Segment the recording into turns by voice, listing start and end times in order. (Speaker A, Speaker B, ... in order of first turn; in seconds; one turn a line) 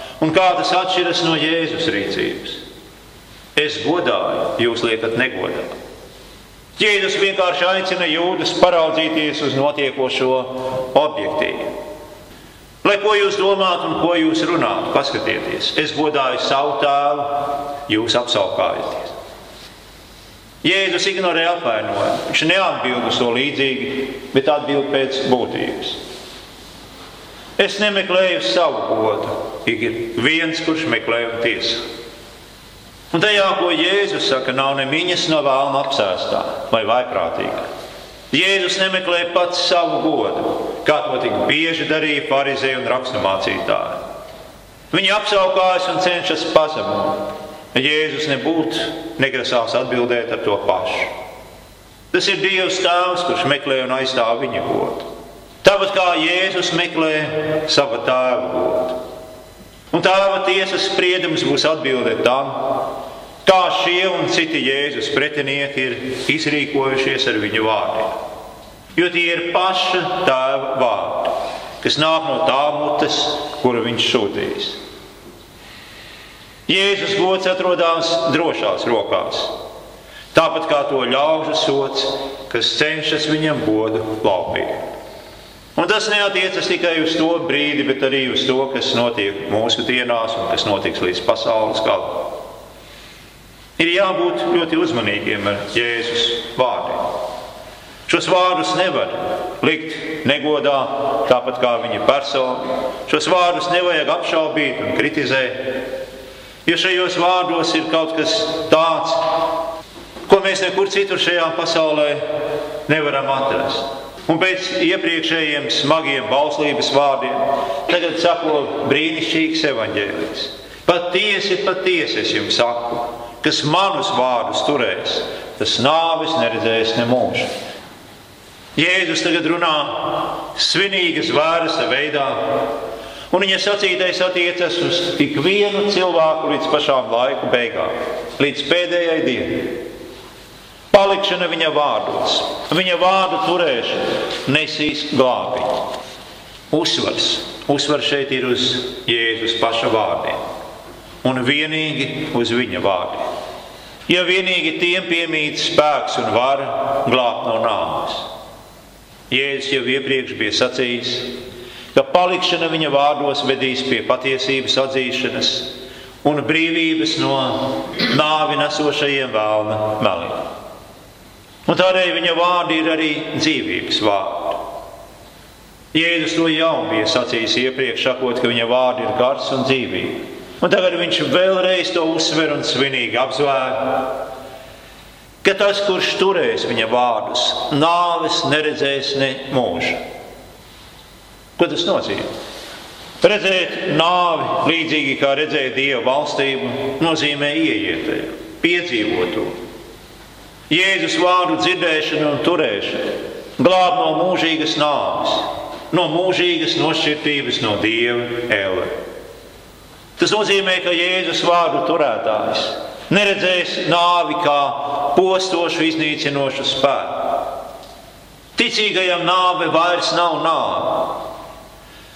Speaker A: 0.2-2.6
Speaker A: 3.5-5.7
Speaker A: 6.8-11.7
Speaker A: 12.8-19.1
Speaker A: 20.6-26.0
Speaker A: 27.6-31.8
Speaker A: 33.1-37.6
Speaker A: 38.3-44.0
Speaker A: 44.9-51.1
Speaker A: 52.1-55.1
Speaker A: 55.6-59.0
Speaker A: 59.9-62.8
Speaker A: 63.4-68.1
Speaker A: 68.9-74.8
Speaker A: 76.7-79.5
Speaker A: 80.3-84.8
Speaker A: 85.8-92.3
Speaker A: 93.8-97.1
Speaker A: 98.1-105.8
Speaker A: 106.7-109.5
Speaker A: 110.3-112.2
Speaker A: 112.9-127.5
Speaker A: 128.8-132.7
Speaker A: 133.3-139.8
Speaker A: 140.9-145.8
Speaker A: 146.7-150.4
Speaker A: 151.2-153.2
Speaker A: 154.1-158.3
Speaker A: 159.3-161.3
Speaker A: 161.9-165.7
Speaker A: 166.2-170.5
Speaker A: 171.7-174.6
Speaker A: 175.9-184.2
Speaker A: 185.4-190.0
Speaker A: 191.6-192.2
Speaker A: 193.2-199.5
Speaker A: 200.7-208.9
Speaker A: 210.2-217.5
Speaker A: 218.6-221.2